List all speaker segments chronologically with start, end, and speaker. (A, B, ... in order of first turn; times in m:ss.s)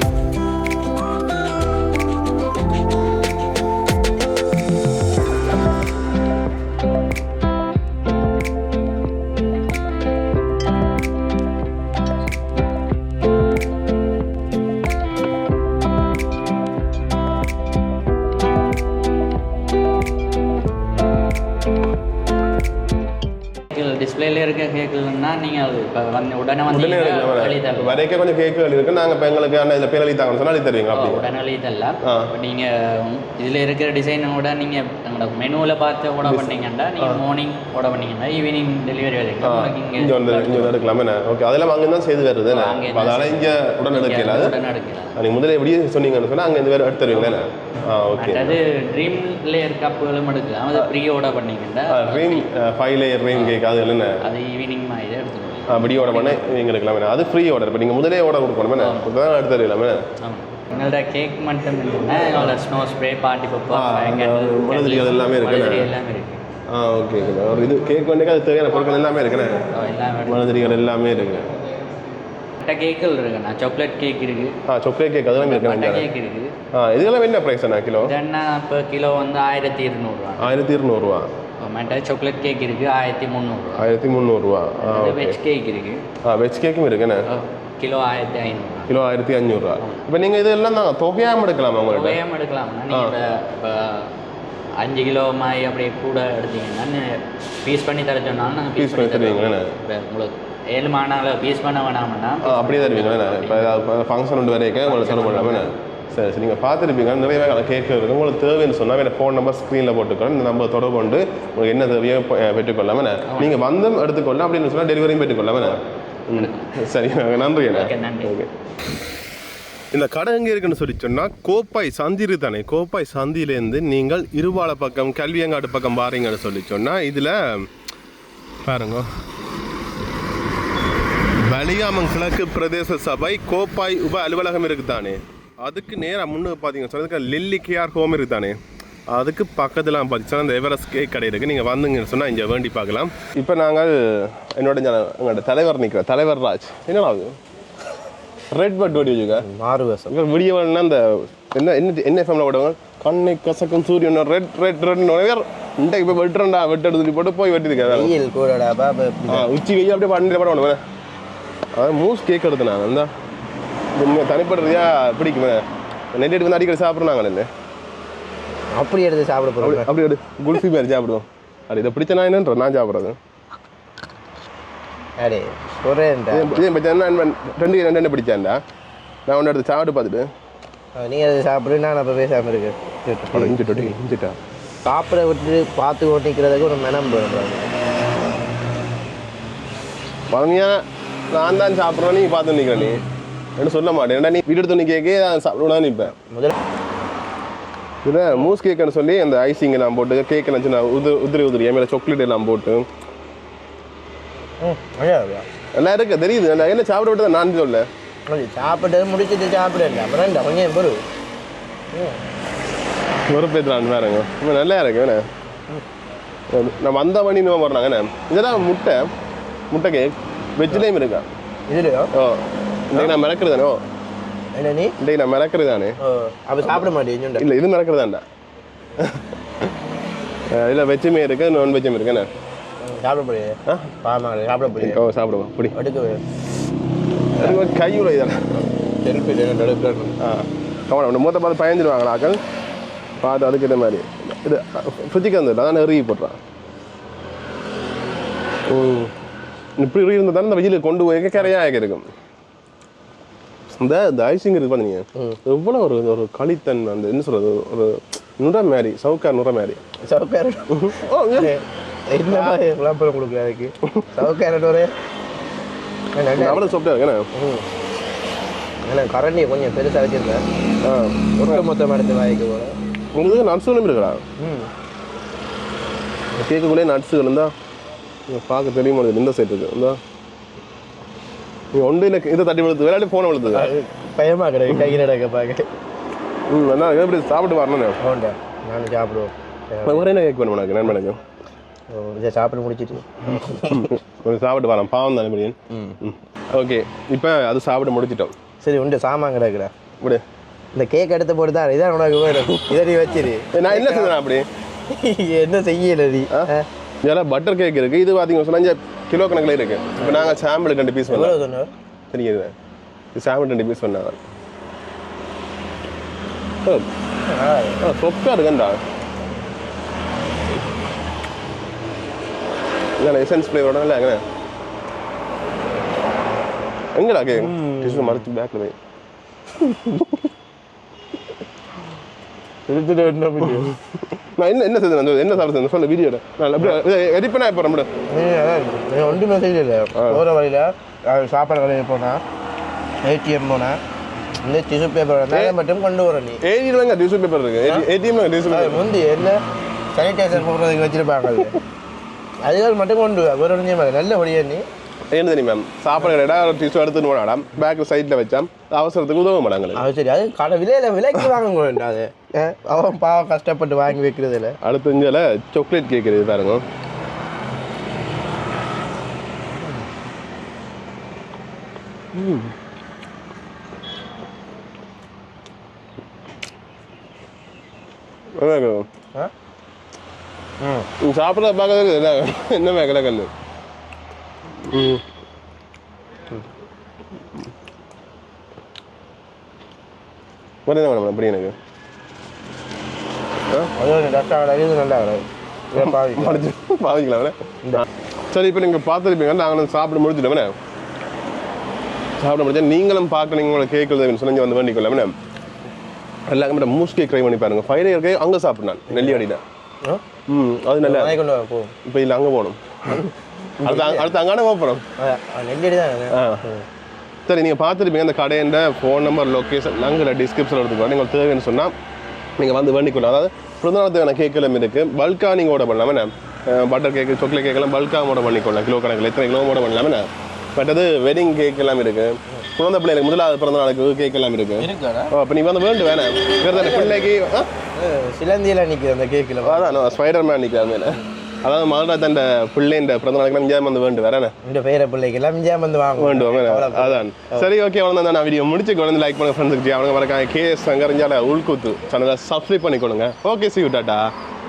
0:23.7-0:28.0 A
0:26.7-0:31.3 B
0:30.9-0:40.8 A
0:32.0-0:32.3 B
0:36.2-0:37.2 B
0:39.4-0:44.6 B
0:42.4-0:45.2 A
0:45.2-0:48.6 B
0:47.1-0:47.4 A
0:48.1-0:52.5 A
0:51.9-0:54.2 B
0:53.3-0:53.6 A
0:54.2-0:56.6 A
0:55.7-1:00.1 B
0:58.8-0:59.1 A
1:00.2-1:06.4 A
1:03.7-1:05.9 B
1:06.7-1:09.6 B
1:09.7-1:11.0 A
1:10.3-1:11.5 B
1:12.6-1:14.6 A
1:14.7-1:16.1 B
1:15.4-1:16.5 A
1:16.7-1:18.2 B
1:18.0-1:20.6 A
1:20.4-1:21.3 B
1:21.6-1:23.9 A
1:23.8-1:25.4 B
1:24.8-1:26.0 A
1:26.2-1:27.3 B
1:27.3-1:29.0 A
1:28.9-1:32.2 B
1:29.8-1:30.0 A
1:31.9-1:34.2 A
1:32.9-1:33.2 B
1:34.8-1:43.9 A
1:38.8-1:39.8 B
1:42.4-1:58.5 B
1:44.8-1:45.7 A
1:53.2-1:53.6 A
1:56.3-1:56.8 A
1:57.7-1:58.3 A
1:59.9-2:07.7 B
2:08.6-2:09.1 B
2:11.4-2:18.6 B
2:19.1-2:27.4 B
2:28.5-2:29.5 B
2:29.4-2:30.1 C
2:30.1-2:38.1 B
2:37.9-2:39.5 C
2:39.3-2:40.8 B
2:41.8-2:43.1 B
2:44.0-2:47.5 B
2:48.8-2:49.9 C
2:49.6-2:53.2 B
2:55.2-2:56.6 C
2:56.3-2:58.6 B
2:59.3-3:00.3 B
3:01.0-3:03.9 C
3:03.3-3:04.4 B
3:04.8-3:07.7 C
3:10.3-3:13.0 B
3:13.6-3:16.2 B
3:16.3-3:16.6 C
3:18.0-3:22.9 B
3:24.6-3:25.5 C
3:25.8-3:27.9 B
3:28.3-3:31.0 C
3:31.9-3:32.2 C
3:33.3-3:35.2 B
3:36.5-3:39.1 B
3:39.7-3:41.3 B
3:41.7-3:42.1 C
3:42.1-3:43.8 B
3:44.6-3:45.0 C
3:45.0-3:46.0 B
3:46.0-3:47.4 C
3:47.4-3:48.2 B
3:49.0-3:49.3 B
3:50.5-3:52.3 B
3:52.8-3:55.0 C
3:53.7-3:54.0 B
3:54.8-3:55.8 B
3:55.7-3:56.2 C
3:57.4-3:57.6 C
3:57.4-3:58.5 B
3:58.5-4:00.2 C
4:00.2-4:02.4 B
4:03.2-4:06.4 B
4:08.7-4:09.1 B
4:09.8-4:12.1 B
4:13.7-4:19.8 B
4:20.1-4:24.9 C
4:20.7-4:21.5 B
4:22.2-4:22.6 B
4:26.2-4:26.7 C
4:26.4-4:27.3 B
4:27.3-4:27.7 C
4:28.9-4:30.4 C
4:30.8-4:31.7 B
4:31.4-4:32.7 C
4:33.2-4:34.2 B
4:34.4-4:34.7 C
4:36.4-4:37.5 B
4:38.3-4:40.0 B
4:41.7-4:43.7 B
4:43.5-4:45.7 C
4:46.5-4:48.0 B
4:48.0-4:50.1 C
4:49.8-4:51.2 B
4:51.9-4:53.9 C
4:53.4-4:58.3 B
4:58.6-4:59.7 C
5:00.7-5:04.2 C
5:02.4-5:02.7 B
5:03.5-5:04.5 B
5:04.9-5:06.7 C
5:07.0-5:11.4 B
5:10.0-5:10.4 C
5:11.1-5:11.7 C
5:12.1-5:12.5 B
5:13.1-5:14.2 B
5:17.3-5:17.8 C
5:17.8-5:18.8 B
5:23.0-5:24.2 B
5:27.0-5:28.8 B
5:27.4-5:28.3 C
5:29.7-5:30.0 C
5:32.7-5:33.8 C
5:33.7-5:37.9 B
5:38.1-5:42.2 C
5:40.0-5:40.2 B
5:43.0-5:43.8 C
5:44.4-5:46.4 C
5:46.4-5:48.8 B
5:48.5-5:49.4 C
5:49.9-5:51.6 C
5:52.4-5:54.6 C
5:55.1-5:59.9 B
5:59.8-6:04.6 C
6:04.6-6:06.6 B
6:12.2-6:12.5 B
6:18.4-6:18.9 B
6:20.6-6:20.9 C
6:21.0-6:23.3 B
6:24.6-6:25.0 B
6:30.7-6:31.5 B
6:33.8-6:36.4 C
6:35.8-6:37.4 B
6:38.3-6:40.5 B
6:42.2-6:45.2 B
6:46.3-6:49.4 B
6:48.9-6:49.2 C
6:50.3-6:51.2 B
6:50.8-6:51.7 C
6:51.8-6:53.1 B
6:53.6-6:54.8 B
6:53.6-6:54.2 C
6:55.0-6:56.7 C
6:56.1-6:56.4 B
6:57.3-7:01.7 B
7:02.4-7:17.5 B
7:14.6-7:15.1 C
7:16.4-7:17.1 C
7:17.8-7:20.0 C
7:19.4-7:24.3 B
7:24.4-7:27.5 C
7:26.0-7:34.1 B